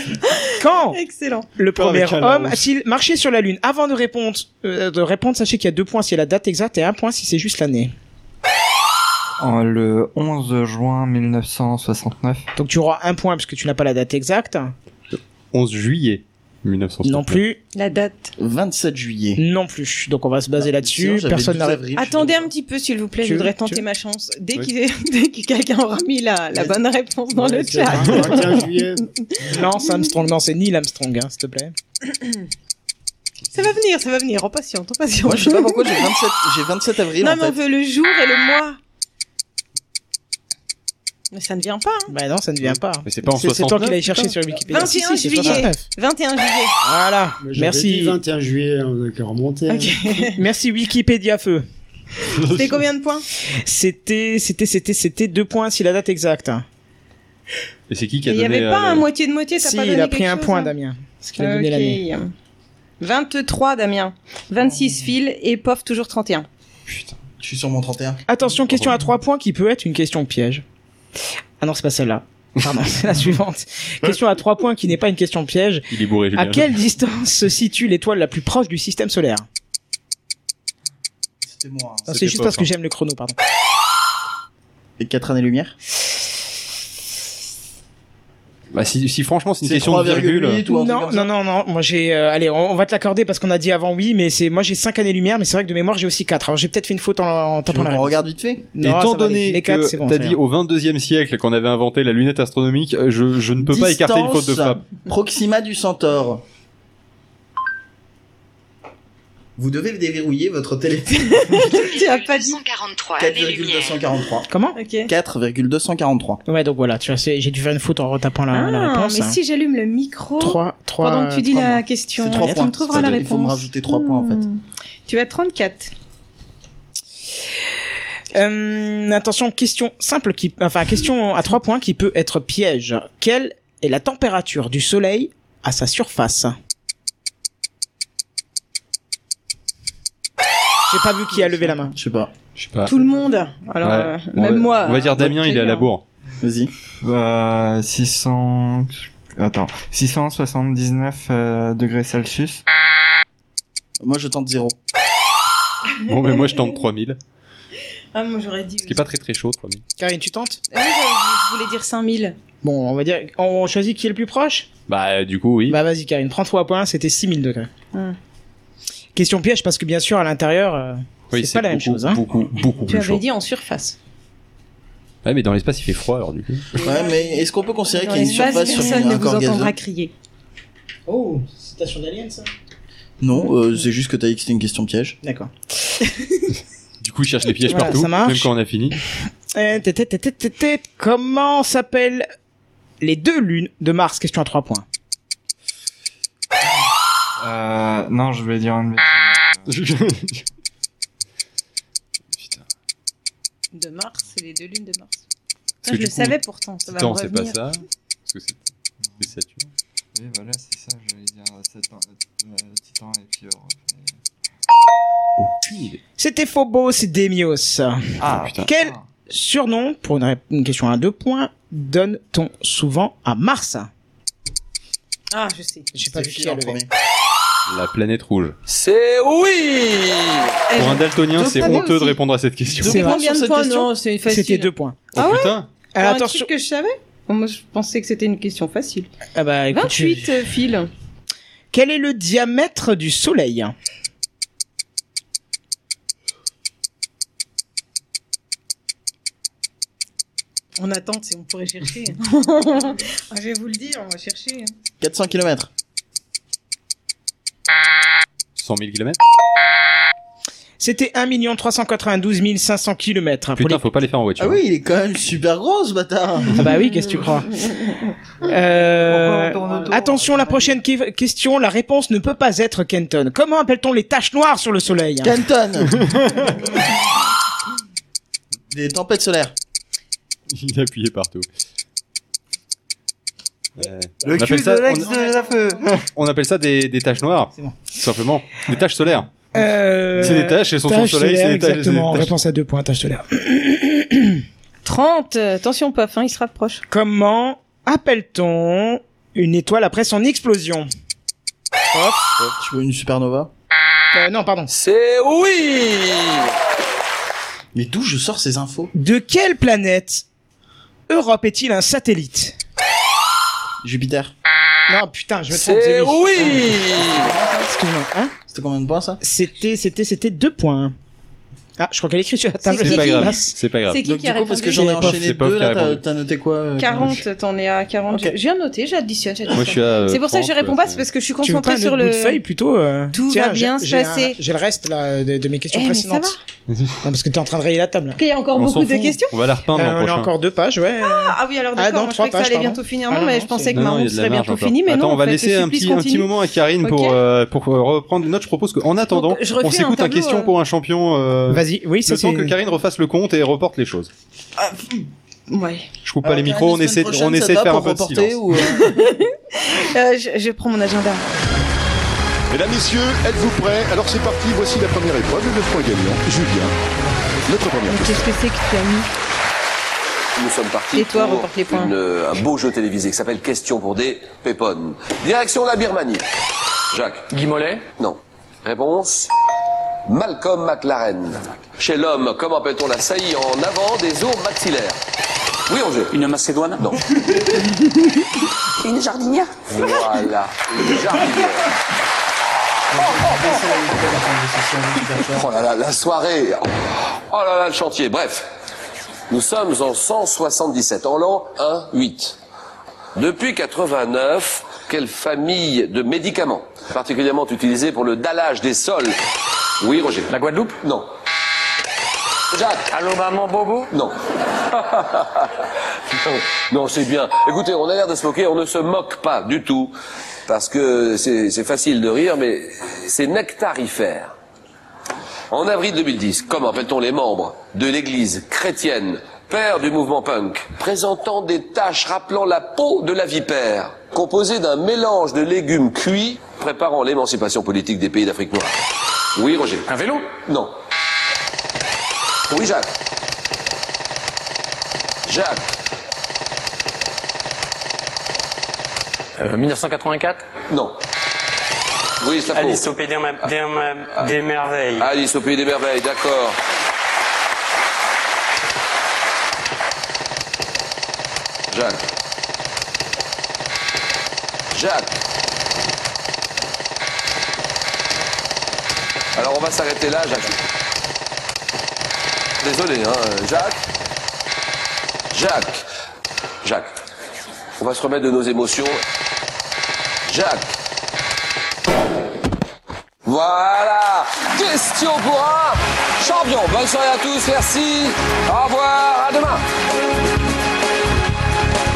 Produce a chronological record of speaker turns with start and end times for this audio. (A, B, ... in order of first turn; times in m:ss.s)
0:00.3-0:01.5 A
0:00.6-0:01.0 B
0:01.6-0:07.9 B
0:01.7-0:02.6 C
0:09.4-0:12.4 D
0:12.6-0:14.7 B
0:15.1-0:17.4 C
0:17.0-0:17.6 B
0:17.8-0:18.4 A
0:18.4-0:19.4 E
0:19.4-0:21.8 B
0:20.6-0:22.5 E
0:21.9-0:30.1 A
0:23.2-0:23.8 B
0:26.5-0:26.8 E
0:27.3-0:29.1 F
0:27.9-0:28.4 B
0:29.5-0:31.8 B
0:33.5-0:36.1 A
0:35.2-0:37.6 E
0:37.2-0:38.8 A
0:41.3-0:42.1 A
0:42.1-0:45.8 B
0:43.0-0:44.2 C
0:44.7-0:46.7 A
0:44.8-0:45.6 E
0:46.8-0:48.2 B
0:47.4-0:50.0 F
0:49.7-0:50.4 A
0:50.3-0:51.6 B
0:52.5-0:53.2 A
0:53.6-0:56.6 B
0:57.9-0:59.1 C
0:58.2-1:00.7 A
0:59.6-1:02.0 B
1:01.4-1:02.3 A
1:03.0-1:06.5 A
1:07.4-1:08.2 E
1:08.3-1:10.6 B
1:11.6-1:19.5 B
1:15.9-1:16.7 C
1:21.4-1:22.1 E
1:22.1-1:23.4 B
1:22.1-1:22.7 C
1:25.0-1:25.8 E
1:28.7-1:30.6 C
1:29.6-1:31.3 E
1:30.7-1:38.2 B
1:37.7-1:38.6 E
1:38.7-1:40.4 B
1:38.8-1:44.8 C
1:43.6-1:46.4 E
1:49.6-1:51.8 E
1:51.2-1:52.6 A
1:51.9-1:54.0 G
1:53.2-1:54.5 E
1:54.5-1:54.8 B
1:54.8-1:55.1 A
1:55.1-1:56.4 E
1:56.5-1:59.4 B
1:58.5-2:05.9 A
2:00.4-2:01.8 B
2:02.2-2:04.4 E
2:08.3-2:16.6 B
2:20.9-2:22.0 B
2:21.4-2:22.3 E
2:22.6-2:23.0 C
2:22.8-2:25.9 A
2:23.8-2:26.0 C
2:26.4-2:26.7 E
2:27.0-2:32.6 D
2:34.0-2:34.8 E
2:36.0-2:36.8 A
2:36.1-2:37.2 C
2:38.1-2:39.0 A
2:38.8-2:39.8 C
2:40.0-2:40.6 B
2:40.7-2:42.4 A
2:42.6-2:44.7 B
2:44.9-2:45.8 C
2:45.7-2:47.7 B
2:49.2-2:52.2 B
2:51.3-2:53.2 C
2:52.8-2:54.0 A
2:55.2-2:56.8 C
2:56.8-2:59.8 E
2:56.8-3:00.1 A
2:58.4-2:59.0 B
3:01.1-3:02.5 B
3:03.2-3:05.2 E
3:05.2-3:05.5 B
3:07.0-3:09.0 C
3:07.7-3:08.5 B
3:09.5-3:12.3 B
3:13.0-3:14.9 B
3:17.4-3:19.8 D
3:19.7-3:20.4 C
3:22.4-3:22.6 C
3:23.7-3:25.2 A
3:25.8-3:27.6 A
3:25.8-3:28.6 C
3:29.2-3:29.7 C
3:30.2-3:34.2 D
3:35.4-3:36.0 C
3:36.2-3:43.9 B
3:38.2-3:39.1 D
3:38.3-3:38.6 C
3:45.3-3:45.9 A
3:45.9-3:46.8 B
3:46.0-3:46.9 E
3:47.7-3:48.6 C
3:48.7-3:50.5 H
3:50.7-3:52.2 A
3:50.8-3:53.1 C
3:52.8-3:53.9 E
3:52.8-3:59.1 A
3:52.9-3:53.2 B
3:54.3-3:55.0 B
3:55.1-3:55.7 C
3:56.0-3:56.5 B
3:59.4-4:00.3 B
3:59.7-4:00.9 A
4:01.7-4:03.7 B
4:10.8-4:14.7 A
4:15.0-4:15.7 E
4:18.6-4:19.2 C
4:20.8-4:23.8 B
4:23.6-4:24.6 C
4:24.4-4:26.7 E
4:26.5-4:27.5 B
4:28.4-4:35.4 B
4:28.9-4:30.8 D
4:35.2-4:36.1 E
4:38.7-4:39.6 E
4:40.5-4:41.5 C
4:43.8-4:45.2 C
4:44.2-4:46.1 D
4:46.1-4:49.3 C
4:49.5-4:54.4 B
4:50.2-4:52.3 C
4:54.8-4:56.8 A
4:56.9-5:00.9 B
5:01.9-5:02.4 B
5:02.6-5:03.5 E
5:04.1-5:04.7 B
5:04.7-5:06.5 H
5:07.7-5:08.9 E
5:08.9-5:10.3 B
5:11.1-5:12.6 B
5:13.8-5:14.3 E
5:14.9-5:16.8 B
5:15.5-5:17.3 H
5:16.4-5:17.7 E
5:17.6-5:18.3 B
5:18.5-5:19.2 E
5:19.2-5:21.0 B
5:21.8-5:23.6 B
5:22.6-5:23.4 A
5:22.8-5:24.0 C
5:23.9-5:24.9 A
5:24.0-5:27.2 E
5:24.7-5:25.2 B
5:24.9-5:26.0 C
5:26.8-5:32.4 A
5:28.1-5:28.4 E
5:29.5-5:31.1 C
5:31.4-5:36.4 B
5:33.1-5:34.4 A
5:35.7-5:36.4 A
5:36.7-5:37.0 C
5:37.0-5:38.2 B
5:38.1-5:39.3 A
5:38.6-5:40.3 C
5:39.7-5:43.8 B
5:41.0-5:47.2 A
5:43.7-5:54.1 C
5:49.1-5:50.5 A
5:51.5-5:52.6 B
5:55.5-5:55.9 A
5:56.0-5:58.4 C
5:56.2-5:59.0 E
5:58.8-6:01.2 A
6:02.5-6:06.7 I
6:07.5-6:08.1 I
6:07.8-6:09.1 A
6:10.4-6:16.2 H
6:10.9-6:11.9 A
6:16.9-6:17.3 H
6:17.3-6:17.9 J
6:17.9-6:19.3 H
6:20.1-6:25.0 H
6:25.7-6:26.2 H
6:26.1-6:26.9 J
6:26.8-6:27.0 H
6:28.8-6:29.5 G
6:29.7-6:31.7 H
6:32.9-6:35.5 E
6:35.4-6:38.4 H
6:39.3-6:42.4 H
6:43.2-6:49.2 H
6:49.8-6:51.1 H
6:50.3-6:50.8 J
6:52.5-6:52.9 H
6:52.9-6:53.9 J
6:53.9-6:55.5 H
6:56.1-6:59.9 H
7:00.5-7:04.3 H
7:05.5-7:18.8 H
7:19.4-7:20.7 H
7:19.9-7:20.3 J
7:22.5-7:22.9 H
7:25.3-7:25.7 H
7:29.4-7:30.4 J
7:30.7-7:31.0 H
7:32.2-7:32.9 H
7:32.5-7:35.1 J
7:35.0-7:36.6 H
7:41.7-7:42.0 H
7:44.7-7:45.2 H
7:49.4-7:50.6 H
7:52.6-7:53.8 H
7:55.3-7:55.8 H
7:56.6-7:56.9 H
7:57.8-7:59.0 H
8:00.3-8:00.8 H
8:03.2-8:09.6 H